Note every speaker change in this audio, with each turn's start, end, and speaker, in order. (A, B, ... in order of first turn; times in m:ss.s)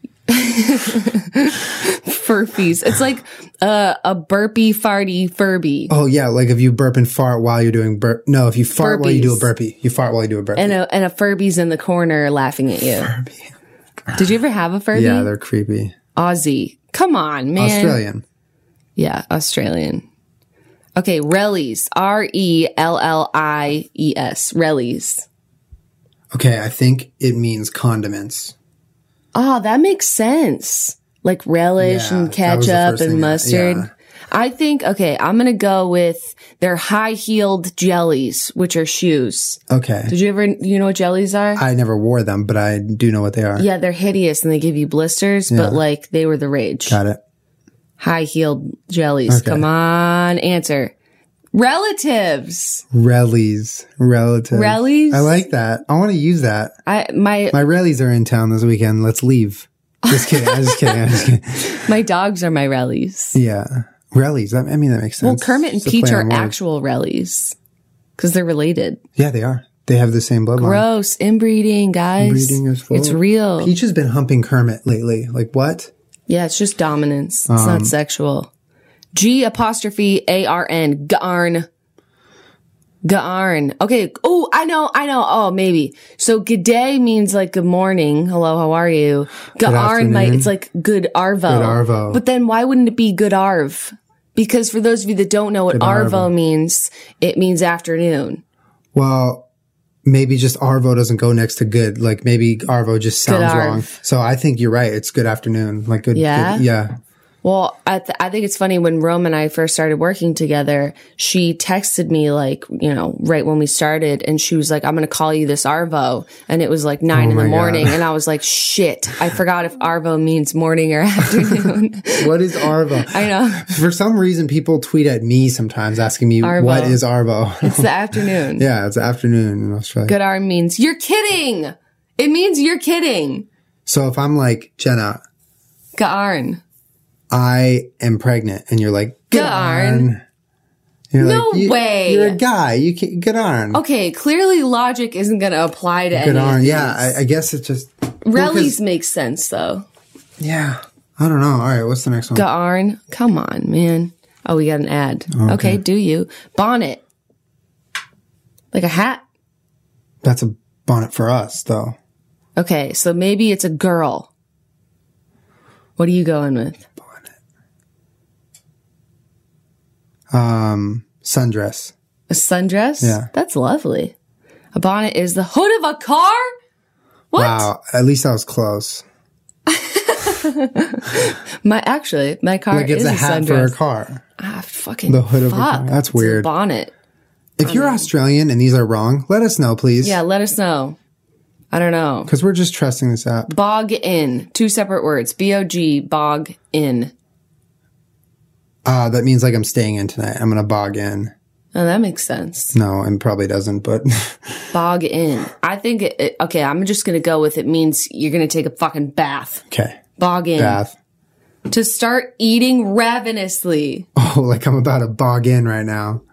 0:00.3-0:05.9 A
0:05.9-0:10.8 B
0:08.8-0:09.5 A
0:10.6-0:13.1 A
0:13.0-0:13.5 B
0:14.1-0:15.3 A
0:14.9-0:15.9 B
0:16.2-0:18.0 A
0:17.6-0:18.2 B
0:19.0-0:20.0 A
0:21.0-0:25.3 A
0:26.3-0:28.5 B
0:29.3-0:41.6 A
0:31.8-0:33.9 B
0:39.7-0:40.1 B
0:41.6-0:43.6 B
0:43.6-0:47.0 A
0:45.5-0:45.8 B
0:46.9-0:47.2 B
0:48.0-0:50.9 A
0:49.3-0:49.6 B
0:51.5-0:52.8 A
0:52.9-0:56.7 B
0:54.5-0:55.3 A
0:56.8-0:57.6 A
0:57.5-1:01.8 B
1:00.0-1:03.4 A
1:03.3-1:06.6 B
1:05.2-1:07.6 A
1:08.2-1:09.0 A
1:09.2-1:10.8 B
1:10.6-1:13.7 A
1:12.2-1:15.9 B
1:16.3-1:18.5 A
1:17.5-1:17.9 B
1:19.1-1:21.7 A
1:23.0-1:38.4 A
1:29.6-1:30.5 B
1:31.5-1:32.2 B
1:35.7-1:36.3 B
1:38.9-1:39.4 B
1:40.0-1:46.9 B
1:43.2-1:43.9 A
1:46.1-1:46.6 A
1:47.4-2:03.7 A
1:57.1-1:58.0 B
2:02.2-2:10.1 B
2:06.4-2:07.0 A
2:07.6-2:08.6 A
2:10.0-2:13.4 A
2:13.8-2:15.2 B
2:16.0-2:16.6 A
2:17.3-2:20.2 B
2:19.3-2:20.1 A
2:21.1-2:23.8 B
2:21.2-2:22.4 A
2:23.7-2:27.1 A
2:26.1-2:28.8 B
2:28.2-2:29.8 A
2:30.4-2:32.4 B
2:32.3-2:37.0 A
2:35.3-2:35.8 B
2:38.7-2:39.2 A
2:40.2-2:42.0 B
2:42.6-2:44.3 A
2:46.0-2:46.8 A
2:50.3-2:51.9 B
2:52.3-2:54.1 A
2:53.0-2:53.3 B
2:54.7-2:56.5 A
2:57.3-2:57.7 A
2:57.3-2:59.0 B
2:59.7-3:03.8 A
3:02.7-3:04.2 B
3:04.4-3:06.9 A
3:05.1-3:06.5 B
3:07.6-3:10.2 B
3:07.6-3:08.1 A
3:10.0-3:11.0 A
3:11.7-3:12.3 A
3:12.3-3:13.5 B
3:13.5-3:17.1 A
3:18.8-3:21.3 B
3:21.7-3:22.7 A
3:22.7-3:24.7 B
3:24.7-3:29.6 A
3:29.7-3:30.0 B
3:30.2-3:30.8 A
3:30.6-3:30.9 B
3:31.7-3:34.1 A
3:34.2-3:36.2 B